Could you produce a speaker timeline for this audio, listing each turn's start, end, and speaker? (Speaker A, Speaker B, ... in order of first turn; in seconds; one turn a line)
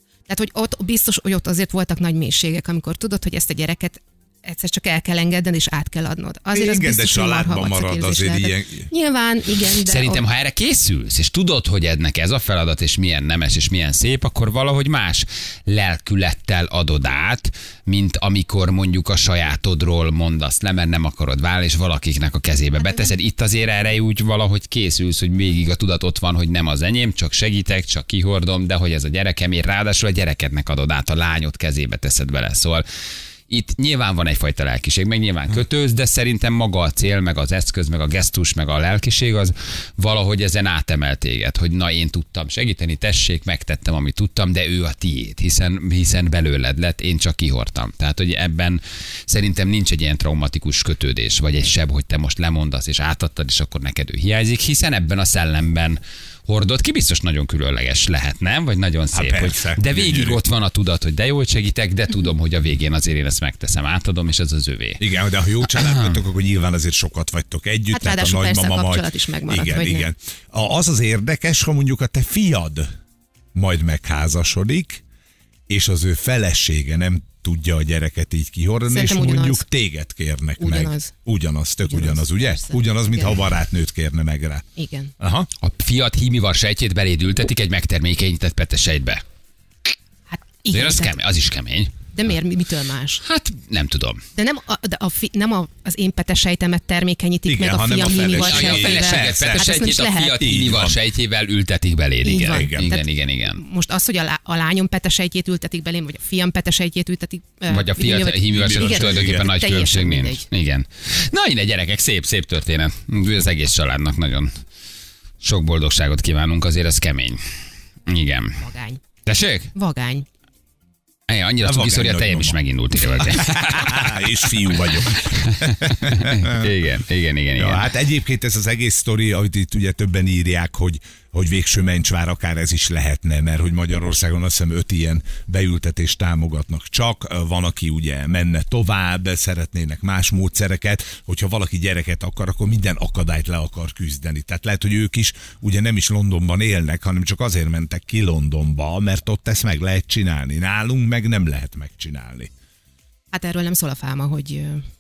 Speaker A: 0.3-10.2
Speaker B: 6.5-8.9
Speaker C: 9.8-32.9
Speaker A: 22.8-23.1
Speaker C: 33.5-65.0
Speaker B: 59.1-60.4
Speaker B: 65.0-72.9
Speaker C: 65.6-66.2
Speaker A: 67.9-70.1
Speaker B: 73.5-75.0
Speaker B: 75.7-84.7
Speaker A: 78.9-79.6
Speaker A: 80.6-81.2
Speaker A: 81.8-83.4
Speaker A: 84.8-85.1
Speaker B: 85.2-85.5
Speaker C: 85.6-89.2
Speaker A: 90.3-91.2
Speaker C: 90.7-91.9
Speaker A: 92.1-93.2
Speaker C: 93.2-94.2
Speaker A: 94.3-100.4
Speaker B: 97.5-101.0
Speaker C: 98.3-103.6
Speaker A: 102.2-110.5
Speaker B: 102.5-102.9
Speaker C: 107.7-114.5
Speaker B: 108.5-109.5
Speaker C: 115.4-117.4
Speaker C: 118.1-118.6
Speaker A: 118.6-119.0
Speaker C: 119.2-119.7
Speaker A: 119.8-120.2
Speaker C: 121.3-127.9
Speaker B: 121.6-126.7
Speaker B: 127.6-152.5
Speaker A: 153.3-154.8